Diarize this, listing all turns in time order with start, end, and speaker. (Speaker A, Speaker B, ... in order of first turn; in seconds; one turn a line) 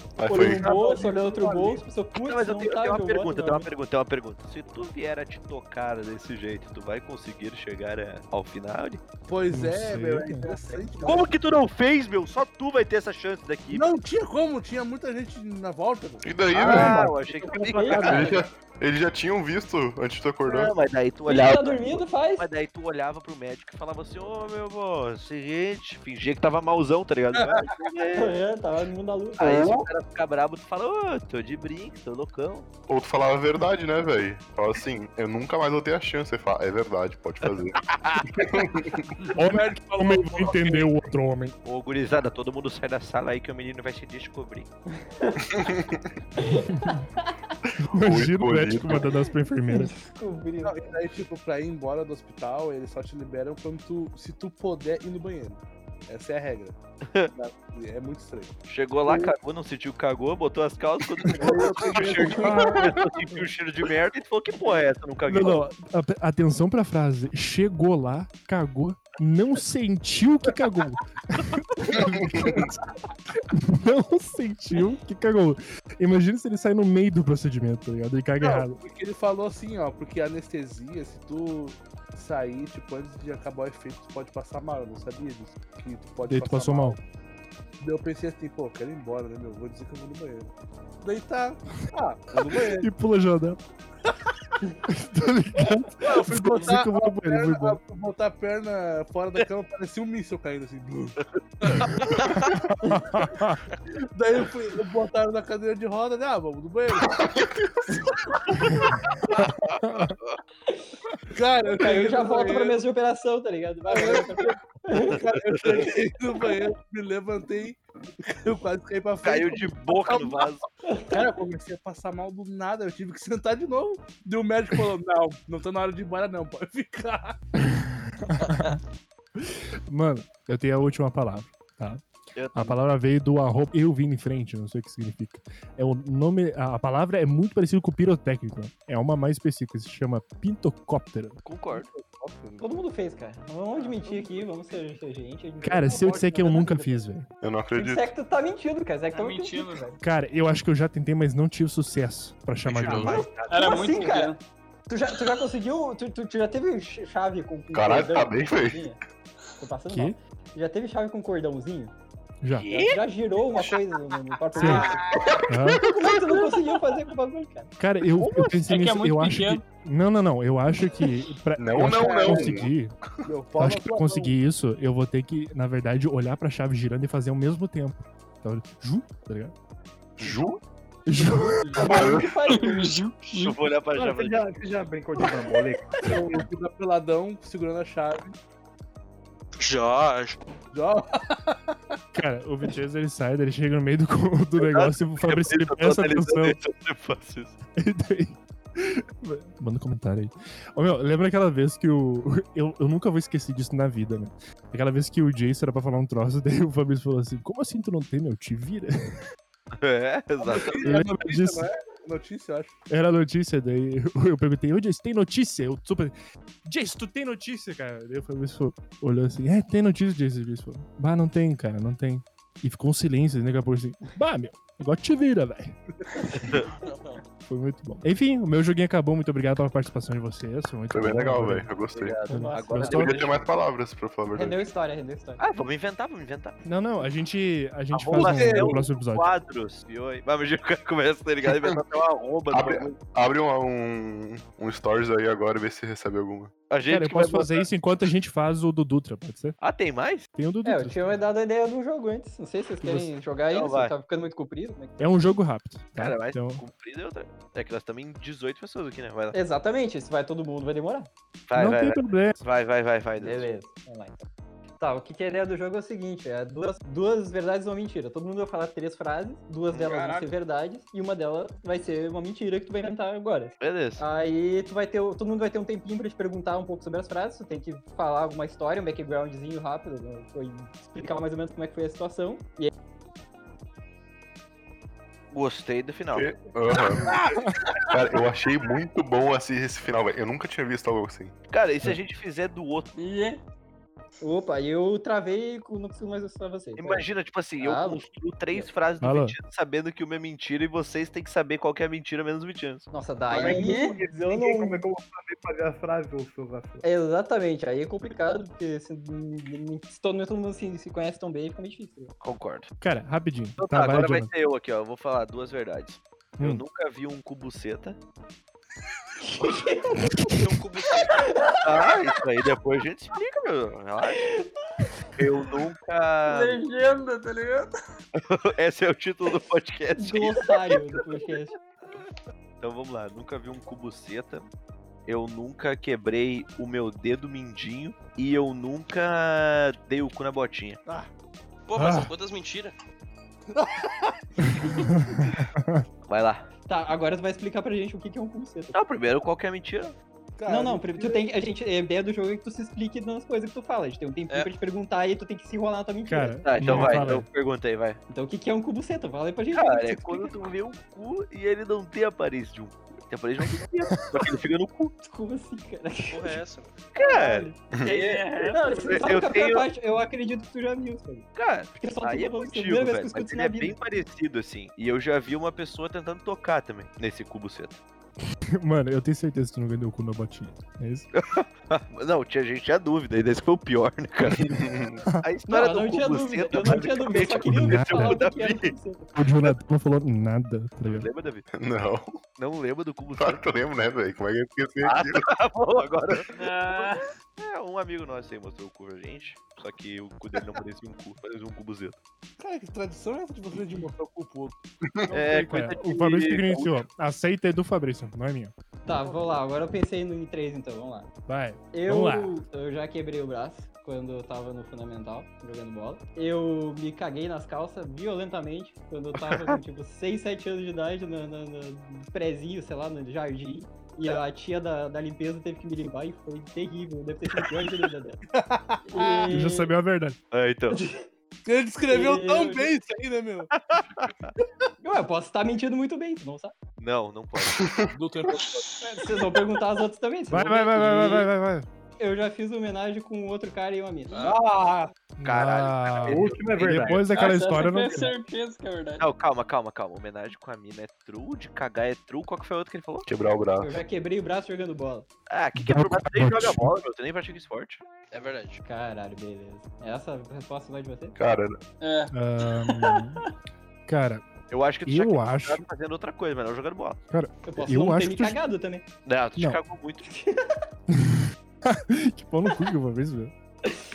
Speaker A: 0.2-0.7
Speaker B: 0.2-3.7
Speaker C: 0.4-1.9
Speaker D: 2.1-9.0
Speaker C: 9.3-11.3
Speaker E: 9.5-10.5
Speaker B: 10.4-11.2
Speaker D: 11.0-13.9
Speaker C: 13.7-17.0
Speaker A: 16.2-17.0
Speaker D: 16.5-18.4
Speaker B: 16.7-18.4
Speaker A: 18.1-20.7
Speaker D: 20.4-28.4
Speaker B: 21.3-22.5
Speaker C: 27.3-27.7
Speaker B: 28.1-29.8
Speaker D: 29.4-32.7
Speaker A: 32.9-39.1
Speaker D: 37.9-38.3
Speaker C: 39.4-40.9
Speaker E: 39.4-41.6
Speaker D: 41.6-44.7
Speaker B: 45.2-45.7
Speaker A: 45.5-46.1
Speaker B: 46.4-47.5
Speaker E: 46.7-47.0
Speaker E: 47.8-50.0
Speaker A: 47.9-49.1
Speaker B: 49.0-51.0
Speaker C: 50.6-56.8
Speaker D: 57.0-57.3
Speaker C: 57.3-58.5
Speaker D: 58.7-65.7
Speaker C: 59.0-59.3
Speaker C: 61.2-63.0
Speaker E: 65.3-72.7
Speaker A: 72.0-72.6
Speaker E: 73.5-78.8
Speaker C: 78.4-87.0
Speaker E: 86.3-87.0
Speaker C: 87.8-92.9
Speaker E: 92.8-93.6
Speaker E: 94.9-97.8
Speaker C: 96.0-102.1
Speaker E: 102.4-103.6
Speaker B: 102.8-103.2
Speaker C: 104.1-107.2
Speaker A: 107.0-108.0
Speaker D: 109.2-110.3
Speaker E: 109.3-110.2
Speaker C: 111.3-112.8
Speaker B: 111.7-115.3
Speaker C: 113.9-120.5
Speaker D: 119.2-120.6
Speaker B: 120.9-121.3
Speaker C: 121.1-127.4
Speaker E: 127.6-128.8
Speaker E: 129.4-132.0
Speaker D: 132.4-132.8
Speaker E: 132.5-141.4
Speaker D: 141.4-141.9
Speaker C: 141.7-142.8
Speaker B: 142.6-147.1
Speaker C: 143.8-144.8
Speaker E: 145.6-147.3
Speaker A: 147.4-148.1
Speaker B: 147.7-149.8
Speaker F: 149.1-150.0
Speaker E: 150.0-153.3
Speaker G: 152.7-153.1
Speaker D: 152.8-153.9
Speaker B: 153.0-159.0
Speaker F: 153.5-154.4
Speaker A: 157.7-158.9
Speaker B: 159.6-161.9
Speaker E: 159.9-160.2
Speaker E: 162.4-162.8
Speaker D: 162.5-163.0
Speaker B: 162.7-167.7
Speaker E: 164.6-164.9
Speaker E: 165.5-165.9
Speaker A: 165.7-166.3
Speaker E: 167.8-172.9
Speaker F: 168.5-169.6
Speaker A: 171.6-173.1
Speaker C: 172.0-172.4
Speaker B: 172.2-172.5
Speaker C: 173.2-174.4
Speaker E: 173.6-179.5
Speaker A: 180.2-180.6
Speaker E: 181.1-181.8
Speaker B: 181.1-183.0
Speaker F: 181.6-183.6
Speaker A: 181.8-182.3
Speaker D: 183.4-184.8
Speaker H: 183.9-186.4
Speaker C: 186.0-188.4
Speaker G: 189.6-190.4
Speaker C: 190.7-192.0
Speaker E: 192.1-196.6
Speaker D: 194.6-197.6
Speaker E: 197.8-209.1
Speaker D: 209.7-210.9
Speaker C: 210.4-212.8
Speaker E: 210.8-211.7
Speaker E: 212.9-216.1
Speaker E: 216.7-225.8
Speaker D: 226.3-226.7
Speaker G: 226.8-227.2
Speaker E: 227.4-231.7
Speaker A: 230.9-232.2
Speaker D: 231.9-233.5
Speaker E: 232.3-233.3
Speaker B: 232.3-233.4
Speaker A: 232.9-234.6
Speaker B: 234.3-235.4
Speaker D: 235.4-236.6
Speaker E: 236.7-239.3
Speaker D: 237.9-242.9
Speaker C: 238.2-238.9
Speaker A: 242.5-246.5
Speaker D: 246.7-247.7
Speaker E: 246.9-249.6
Speaker D: 249.6-250.3
Speaker E: 250.4-251.2
Speaker B: 250.6-255.3
Speaker E: 252.8-253.1
Speaker D: 253.5-253.9
Speaker E: 255.0-256.6
Speaker D: 256.0-259.4
Speaker B: 259.3-261.1
Speaker D: 261.5-263.5
Speaker E: 261.6-262.4
Speaker B: 263.2-264.3
Speaker B: 264.8-282.7
Speaker F: 269.8-270.3
Speaker D: 273.6-274.0
Speaker D: 285.3-286.3
Speaker A: 286.1-287.2
Speaker C: 287.0-287.9
Speaker A: 287.8-291.3
Speaker D: 291.5-292.9
Speaker F: 292.9-293.4
Speaker B: 294.2-297.1
Speaker D: 296.8-302.9
Speaker B: 297.6-298.7
Speaker E: 299.0-299.4
Speaker B: 302.9-304.8
Speaker H: 303.3-306.8
Speaker F: 303.4-304.0
Speaker B: 306.8-312.1
Speaker D: 312.2-312.7
Speaker E: 312.8-314.3
Speaker D: 313.6-318.0
Speaker B: 319.3-320.5
Speaker G: 320.2-321.3
Speaker B: 321.0-321.7
Speaker D: 321.6-324.2
Speaker B: 324.1-325.1
Speaker D: 325.2-326.6
Speaker F: 326.2-327.7
Speaker D: 328.1-331.3
Speaker B: 329.9-331.6
Speaker D: 332.6-334.5
Speaker D: 335.1-340.8
Speaker G: 341.7-342.7
Speaker E: 341.8-342.1
Speaker C: 343.5-344.2
Speaker E: 344.6-345.9
Speaker D: 346.1-346.5
Speaker B: 346.7-348.8
Speaker D: 348.7-350.0
Speaker C: 350.4-351.3
Speaker B: 350.5-357.1
Speaker E: 356.1-357.3
Speaker D: 356.4-358.0
Speaker B: 358.1-360.4
Speaker D: 359.5-364.9
Speaker B: 365.0-366.4
Speaker G: 366.1-366.8
Speaker D: 366.9-367.5
Speaker B: 367.0-367.6
Speaker A: 367.7-368.0
Speaker F: 367.8-369.0
Speaker B: 368.4-373.8
Speaker D: 368.8-369.7
Speaker D: 371.4-377.8
Speaker E: 378.5-381.1
Speaker D: 381.2-384.6
Speaker A: 384.3-385.0
Speaker D: 385.2-388.7
Speaker B: 385.5-389.2
Speaker E: 387.5-388.3
Speaker E: 389.2-391.1
Speaker D: 390.9-391.5
Speaker A: 391.5-392.1
Speaker D: 392.4-393.4
Speaker A: 393.2-395.3
Speaker D: 394.8-396.3
Speaker F: 396.3-397.1
Speaker D: 397.4-402.0
Speaker C: 402.4-405.6
Speaker D: 405.1-406.8
Speaker E: 405.4-408.5
Speaker B: 408.9-411.1
Speaker E: 411.3-412.4
Speaker B: 411.7-428.2
Speaker D: 419.2-419.6
Speaker C: 428.3-429.3
Speaker B: 428.9-429.7
Speaker E: 429.3-430.2
Speaker D: 430.3-430.8
Speaker B: 430.7-431.1
Speaker C: 431.4-433.5
Speaker B: 431.9-432.7
Speaker D: 433.5-434.3
Speaker B: 434.8-436.5
Speaker D: 436.8-437.7
Speaker A: 437.4-437.9
Speaker C: 437.9-438.7
Speaker F: 438.6-439.4
Speaker B: 438.8-441.3
Speaker E: 440.3-441.7
Speaker B: 442.0-444.4
Speaker G: 444.1-444.4
Speaker C: 444.1-444.9
Speaker E: 445.2-448.1
Speaker D: 445.2-447.0
Speaker H: 446.1-447.2
Speaker F: 447.1-449.1
Speaker D: 449.0-453.1
Speaker A: 453.1-453.8
Speaker B: 453.6-455.1
Speaker D: 455.3-457.8
Speaker E: 455.6-456.7
Speaker G: 458.1-458.6
Speaker B: 458.6-461.2
Speaker A: 461.2-461.6
Speaker F: 461.8-463.3
Speaker E: 462.1-463.2
Speaker E: 463.9-464.2
Speaker D: 464.5-467.0
Speaker E: 464.9-465.6
Speaker E: 467.1-468.4
Speaker B: 467.4-468.9
Speaker D: 469.1-470.1
Speaker B: 470.0-470.6
Speaker E: 470.9-473.3